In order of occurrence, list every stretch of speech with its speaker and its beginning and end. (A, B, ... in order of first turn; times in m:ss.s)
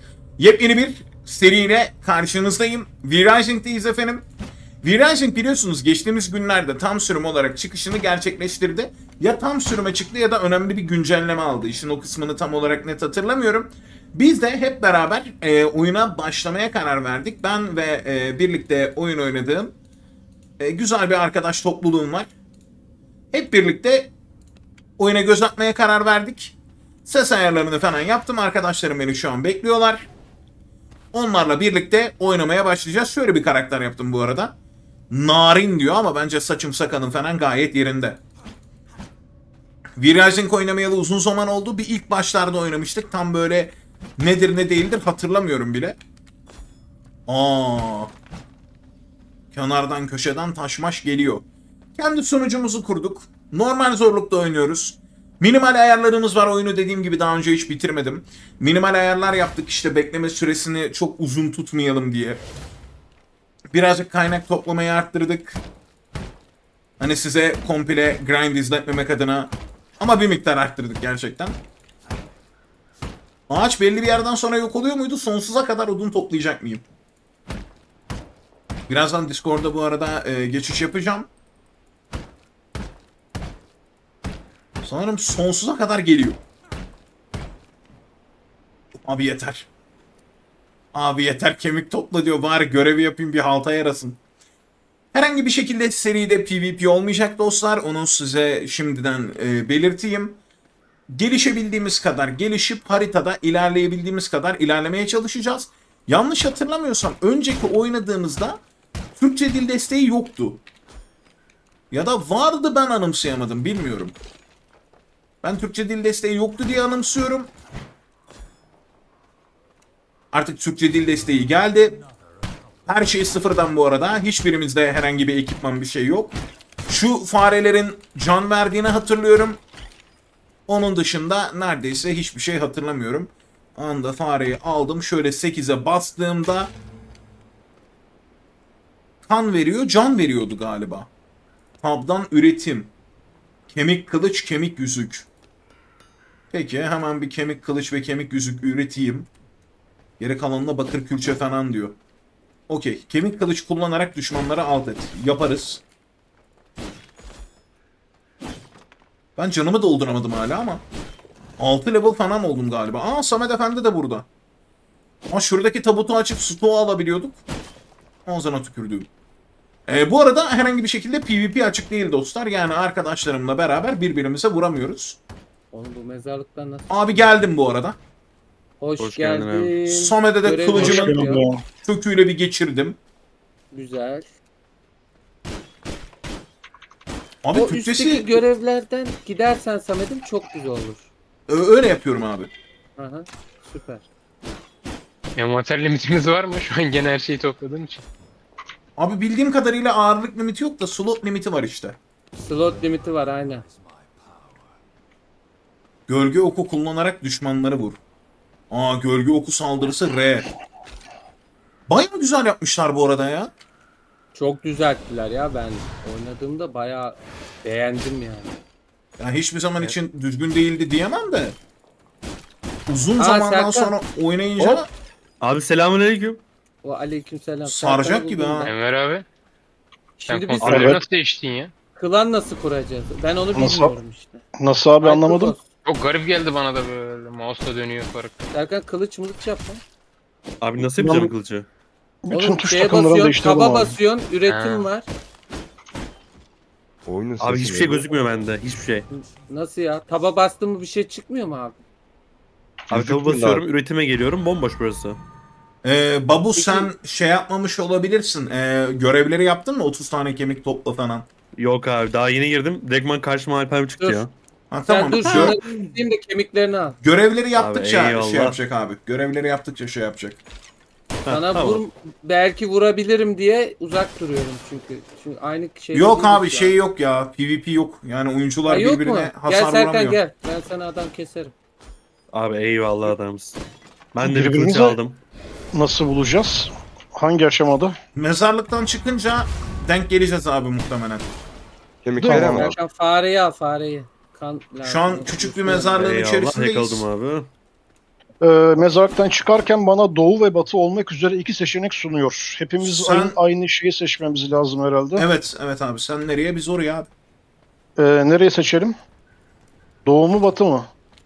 0:00.4-0:04.2 A
0:04.8-0:19.7 A
0:20.6-0:22.3 A
0:23.3-0:24.1 A
0:25.0-0:26.5 A
0:27.0-0:30.1 A
0:31.1-0:34.5 A
0:35.1-0:38.2 A
0:40.0-0:46.0 A
0:47.3-0:48.1 A
0:49.5-0:51.4 A
0:52.0-1:02.4 A
1:03.7-1:05.6 A
1:07.0-1:11.6 A
1:13.5-1:16.8 A
1:18.9-1:21.3 A
1:24.8-1:26.4 A
1:29.0-1:29.7 A
1:30.9-1:34.2 A
1:35.1-1:40.4 A
1:41.1-1:48.6 A
1:49.2-1:50.6 A
1:51.9-1:54.2 A
1:55.4-1:57.5 A
2:00.3-2:02.0 A
2:02.9-2:06.3 A
2:06.9-2:09.6 A
2:10.7-2:16.7 A
2:19.2-2:21.1 A
2:21.8-2:22.9 A
2:23.7-2:25.3 A
2:26.5-2:29.3 A
2:30.2-2:32.0 A
2:32.7-2:35.8 A
2:39.4-2:40.8 A
2:41.6-2:44.2 A
2:45.3-2:47.4 A
2:48.2-2:49.1 A
2:49.9-2:55.2 A
2:55.7-2:57.3 B
2:56.9-2:58.0 A
2:58.8-3:01.4 B
2:59.0-2:59.7 C
2:59.8-3:03.0 A
3:00.8-3:01.6 D
3:03.7-3:04.3 B
3:07.4-3:08.4 A
3:07.5-3:11.1 B
3:11.5-3:12.5 A
3:13.0-3:14.0 B
3:15.4-3:18.0 E
3:19.0-3:22.0 A
3:22.4-3:23.6 B
3:26.1-3:28.0 A
3:28.7-3:30.5 A
3:31.9-3:33.5 A
3:34.3-3:38.5 B
3:39.2-3:41.6 A
3:42.9-3:44.9 A
3:43.2-3:43.9 B
3:45.4-3:46.4 C
3:46.8-3:48.7 B
3:47.6-3:48.7 A
3:48.6-3:49.2 E
3:50.2-3:51.0 B
3:50.3-3:51.7 E
3:50.6-3:51.0 C
3:50.7-3:51.0 D
3:52.0-3:54.4 B
3:53.6-3:53.9 D
3:54.6-3:55.6 D
3:55.0-3:55.6 B
3:55.8-3:58.3 E
3:58.5-3:59.8 B
4:00.6-4:01.7 C
4:01.0-4:01.3 D
4:02.2-4:04.0 D
4:02.3-4:05.1 B
4:04.5-4:04.9 E
4:07.0-4:08.1 F
4:07.4-4:09.1 C
4:09.1-4:11.8 B
4:12.9-4:13.6 F
4:12.9-4:15.2 C
4:15.8-4:21.3 A
4:16.6-4:16.9 B
4:21.6-4:24.3 C
4:24.7-4:25.6 A
4:24.9-4:27.0 B
4:25.2-4:25.9 C
4:27.0-4:30.4 A
4:27.6-4:28.6 C
4:31.2-4:31.8 C
4:31.3-4:36.8 B
4:35.9-4:40.2 A
4:38.6-4:41.5 B
4:42.3-4:43.6 C
4:44.1-4:45.2 C
4:44.2-4:45.0 D
4:45.7-4:47.9 D
4:48.1-4:51.3 A
4:52.0-4:52.8 F
4:52.2-4:52.7 D
4:52.2-4:56.1 B
4:54.8-4:57.0 A
4:56.0-4:57.5 C
4:58.4-5:05.2 D
5:02.8-5:03.4 A
5:05.2-5:07.1 A
5:08.0-5:08.9 D
5:10.0-5:10.9 D